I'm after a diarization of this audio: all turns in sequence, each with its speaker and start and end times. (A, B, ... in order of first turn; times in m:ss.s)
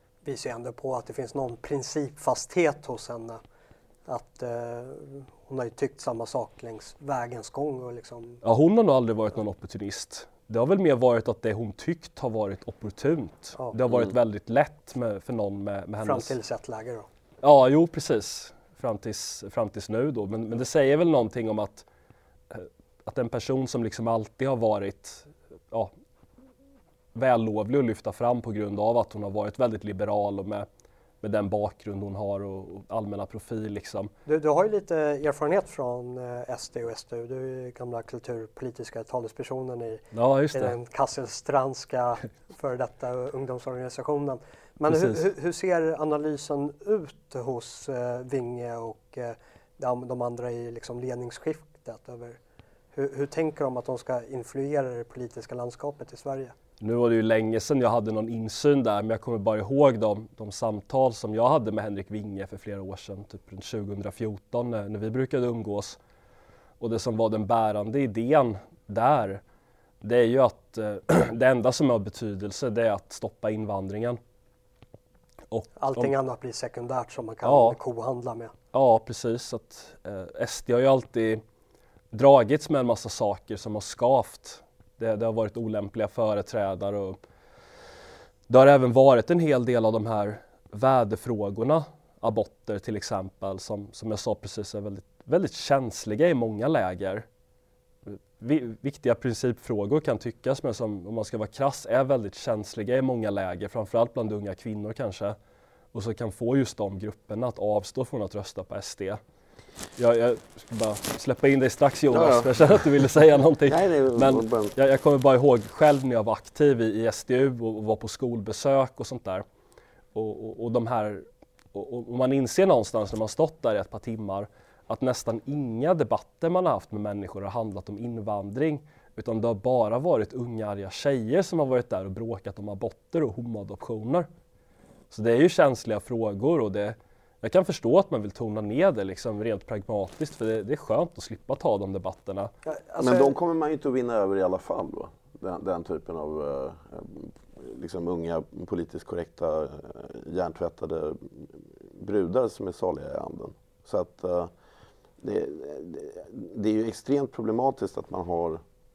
0:00.2-0:03.4 A
0:04.1-0:08.4 A
0:08.4-0:16.3 B
0:16.0-0:17.1 A
0:17.4-0:21.8 B
0:22.5-0:25.9 B
0:27.1-0:30.7 B
0:31.2-0:34.1 B
0:34.2-0:52.4 A
0:40.1-0:40.7 B
0:44.9-0:45.2 B
0:52.9-0:56.5 A
0:56.8-1:06.0 B
1:06.8-1:09.4 B
1:10.0-1:14.2 B
1:15.5-1:16.1 B
1:15.8-1:18.5 A
1:17.4-1:17.8 B
1:18.7-1:21.4 B
1:22.1-1:27.2 B
1:28.5-1:37.2 B
1:38.1-1:45.4 B
1:45.9-1:49.2 B
1:50.0-1:59.4 B
1:52.1-1:52.5 C
1:53.7-1:54.7 C
2:00.1-2:14.3 B
2:15.1-2:22.5 B
2:22.6-2:23.3 A
2:23.0-2:34.5 C
2:35.2-2:38.6 C